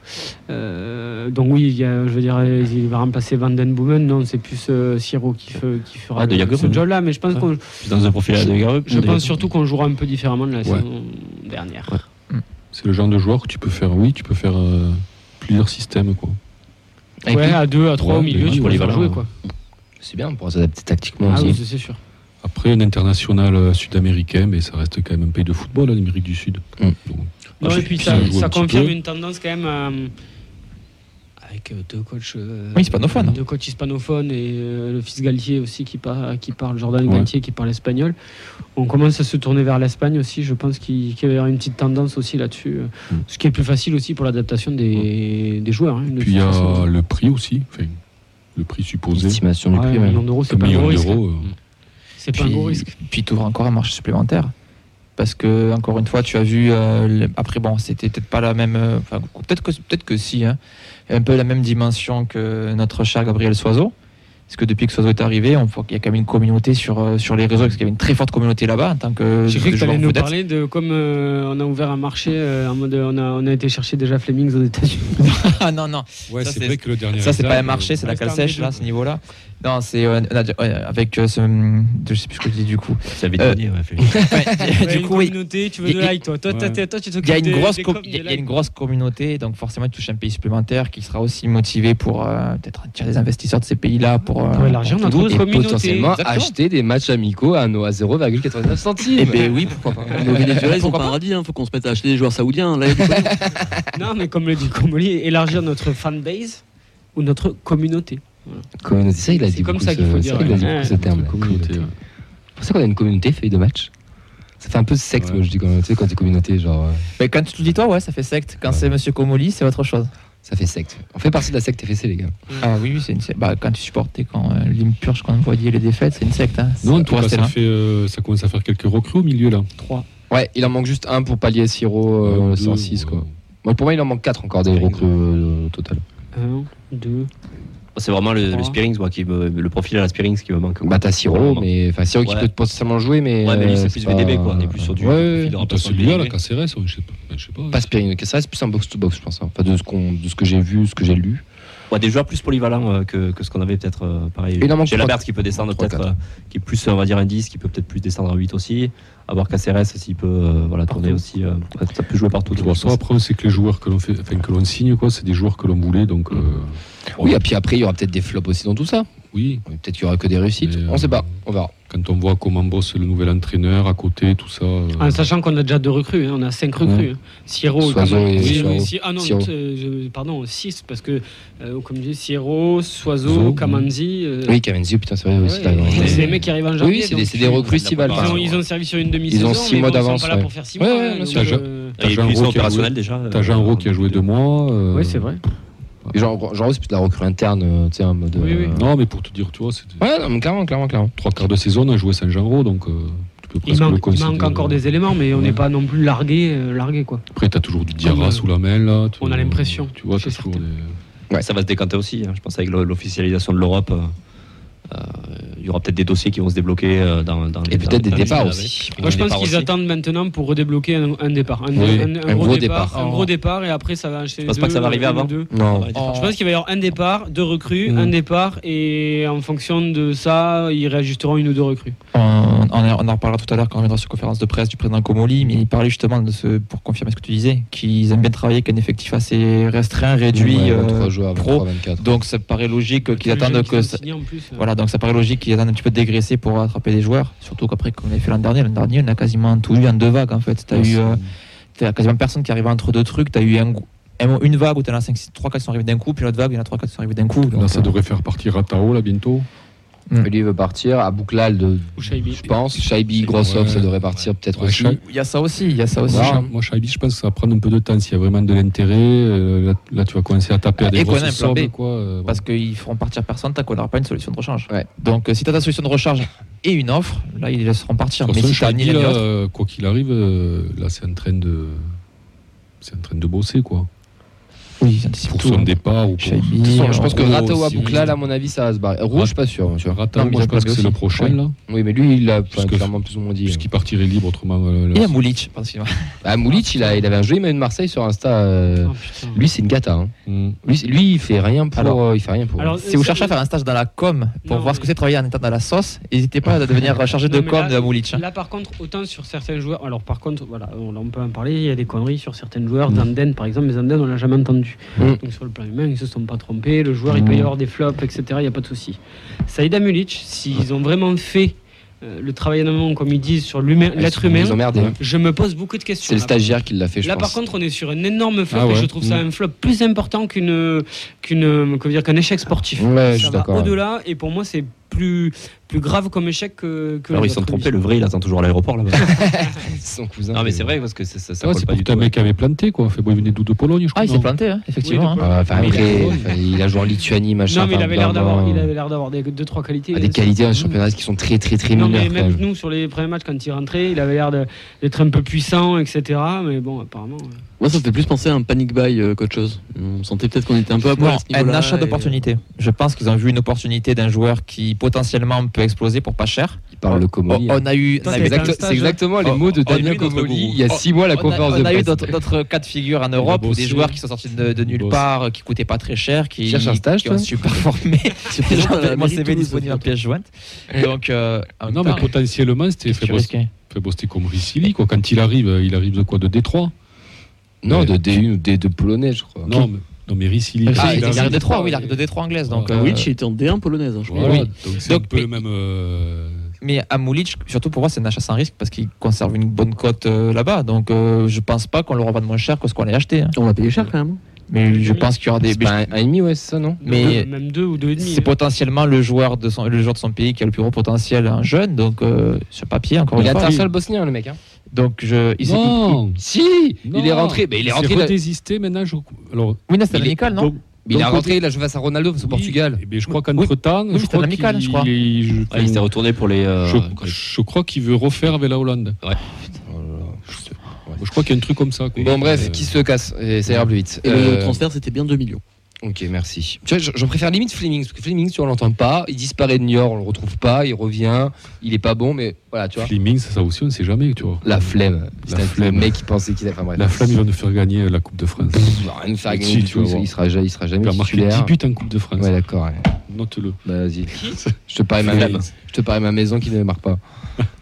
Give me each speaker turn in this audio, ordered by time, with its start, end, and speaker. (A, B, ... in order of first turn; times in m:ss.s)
0:00.5-0:07.8 A
0:06.1-0:09.5 B
0:08.8-0:12.0 A
0:08.9-0:09.3 C
0:12.7-0:16.4 D
0:17.2-0:17.6 E
0:17.3-0:19.3 A
0:18.0-0:19.2 D
0:18.6-0:19.2 B
0:20.0-0:21.6 E
0:21.3-0:22.0 A
0:22.4-0:29.0 D
0:27.6-0:30.1 A
0:31.4-0:38.2 A
0:32.8-0:33.4 F
0:37.1-0:37.3 D
0:38.8-0:46.9 A
0:46.2-0:48.0 D
0:48.5-0:49.4 D
0:49.1-0:50.2 E
0:49.7-0:51.2 A
0:50.5-0:51.5 D
0:52.2-0:52.9 A
0:52.3-0:54.5 F
0:55.2-1:00.6 F
1:01.1-1:03.9 F
1:04.5-1:10.3 F
1:09.5-1:15.2 A
1:15.2-1:23.6 F
1:16.3-1:18.0 D
1:18.1-1:18.8 A
1:23.2-1:24.1 B
1:24.1-1:24.4 E
1:24.3-1:26.1 F
1:24.8-1:28.4 A
1:26.5-1:26.8 D
1:27.2-1:35.4 F
1:34.5-1:36.1 A
1:35.3-1:39.4 E
1:36.0-1:36.5 F
1:39.2-1:39.5 C
1:39.3-1:41.1 F
1:40.1-1:43.4 C
1:43.1-1:43.8 E
1:43.9-1:46.6 A
1:47.1-1:48.6 A
1:48.8-1:51.8 E
1:49.2-1:51.0 A
1:50.4-1:51.9 D
1:52.6-1:53.9 E
1:54.6-1:57.0 E
1:57.2-2:00.1 F
2:00.4-2:02.3 E
2:02.6-2:07.5 F
2:06.8-2:09.7 D
2:10.3-2:16.0 E
2:12.2-2:13.3 D
2:14.8-2:15.1 B
2:16.3-2:17.3 A
2:17.9-2:21.7 B
2:18.4-2:18.8 A
2:20.8-2:25.5 E
2:22.2-2:22.5 B
2:23.4-2:26.3 B
2:25.6-2:27.9 D
2:27.7-2:31.4 E
2:31.9-2:43.0 B
2:34.6-2:36.1 E
2:40.9-2:41.2 F
2:42.5-2:47.4 D
2:47.2-2:49.1 E
2:49.3-2:49.6 D
2:49.6-2:51.7 E
2:50.6-2:51.3 D
2:51.9-2:55.2 D
2:55.0-3:04.5 A
2:57.8-2:59.5 E
2:58.3-2:58.9 D
3:03.2-3:03.9 D
3:04.4-3:08.4 E
3:05.4-3:07.7 A
3:05.8-3:06.1 C
3:05.8-3:06.4 B
3:07.6-3:08.6 B
3:08.2-3:12.0 A
3:09.3-3:11.6 E
3:11.3-3:15.4 D
3:12.0-3:14.2 B
3:14.9-3:15.4 A
3:16.1-3:18.9 E
3:18.4-3:18.7 A
3:18.6-3:20.0 D
3:20.0-3:21.1 E
3:21.2-3:25.6 D
3:23.6-3:27.2 A
3:27.3-3:31.0 D
3:28.0-3:28.4 A
3:29.2-3:30.6 A
3:31.4-3:34.1 B
3:34.9-3:39.6 B
3:37.7-3:39.0 E
3:39.0-3:45.5 A
3:39.2-3:39.7 F
3:41.8-3:42.1 D
3:42.2-3:43.3 E
3:44.4-3:46.3 B
3:45.5-3:45.9 E
3:45.9-3:46.4 F
3:46.1-3:52.0 A
3:47.9-3:48.1 D
3:52.1-4:04.0 F
4:00.3-4:02.1 E
4:03.1-4:04.7 A
4:04.5-4:11.2 F
4:10.7-4:11.3 D
4:11.8-4:17.9 F
4:17.5-4:19.5 D
4:20.2-4:25.0 E
4:22.0-4:22.4 A
4:23.1-4:24.4 B
4:23.3-4:23.9 D
4:24.5-4:25.0 D
4:24.9-4:26.4 F
4:26.1-4:26.5 E
4:26.1-4:32.4 D
4:30.8-4:31.7 F
4:32.2-4:39.2 F
4:38.2-4:41.9 D
4:42.8-4:43.9 D
4:44.8-4:48.0 F
4:45.3-4:48.2 D
4:46.6-4:50.0 E
4:49.1-4:51.5 D
4:50.1-4:51.4 F
4:51.7-4:53.7 E
4:52.5-4:52.9 D
4:53.4-4:55.2 D
4:54.9-4:55.9 F
4:56.2-5:00.1 E
4:56.5-4:56.9 A
4:58.8-4:59.4 A
5:00.3-5:00.6 D
5:00.6-5:02.8 E
5:02.6-5:03.4 A
5:02.8-5:08.2 F
5:04.4-5:04.9 A
5:07.2-5:37.7 A
5:17.1-5:17.5 D
5:24.0-5:25.0 E
5:26.0-5:27.4 E
5:28.5-5:29.2 D
5:32.8-5:33.8 E
5:32.9-5:33.5 C
5:37.1-5:39.2 B
5:39.0-5:40.8 E
5:40.3-5:42.2 B
5:41.4-5:44.3 D
5:43.9-5:45.8 F
5:44.8-5:45.1 A
5:45.0-5:45.4 C
5:45.2-5:48.7 E
5:45.5-5:46.3 D
5:47.5-5:50.4 A
5:49.9-5:52.4 E
5:51.8-5:57.4 A
5:57.6-6:02.2 C
6:00.9-6:22.2 F
6:06.8-6:12.2 E
6:08.0-6:08.9 A
6:08.2-6:08.9 C
6:13.2-6:15.0 D
6:16.4-6:17.4 E
6:18.3-6:19.9 C
6:21.7-6:26.7 D
6:22.9-6:23.5 F
6:27.6-6:29.5 E
6:27.7-6:28.0 D
6:29.4-6:31.5 D
6:30.6-6:33.1 F
6:30.8-6:31.6 E
6:32.4-6:32.8 D
6:32.7-6:34.4 C
6:34.0-6:36.5 D
6:34.2-6:35.4 F
6:36.6-6:43.4 F
6:43.3-6:44.2 C
6:44.5-6:46.0 F
6:44.6-6:45.1 A
6:45.4-6:47.2 E
6:46.8-6:48.3 A
6:46.8-6:47.3 F
6:48.0-6:53.6 F
6:53.2-6:53.7 D
6:53.2-6:54.4 E
6:54.7-6:56.0 F
6:55.4-6:56.2 D
6:56.1-6:58.1 E
6:56.8-7:01.4 D
6:59.7-7:00.5 F
7:00.8-7:02.9 E
7:02.2-7:05.9 D
7:03.3-7:04.9 F
7:05.5-7:07.1 B
7:06.6-7:09.0 D
7:09.6-7:11.0 E
7:10.3-7:12.7 D
7:12.0-7:14.6 E
7:14.0-7:15.4 C
7:15.8-7:22.9 E
7:22.8-7:26.0 D
7:24.4-7:27.2 E
7:26.8-7:30.1 D
7:28.5-7:31.5 E
7:30.8-7:32.3 D
7:32.2-7:32.9 E
7:33.1-7:33.6 D
7:33.6-7:34.2 E
7:34.2-7:35.4 D
7:34.7-7:37.0 E
7:35.0-7:35.5 B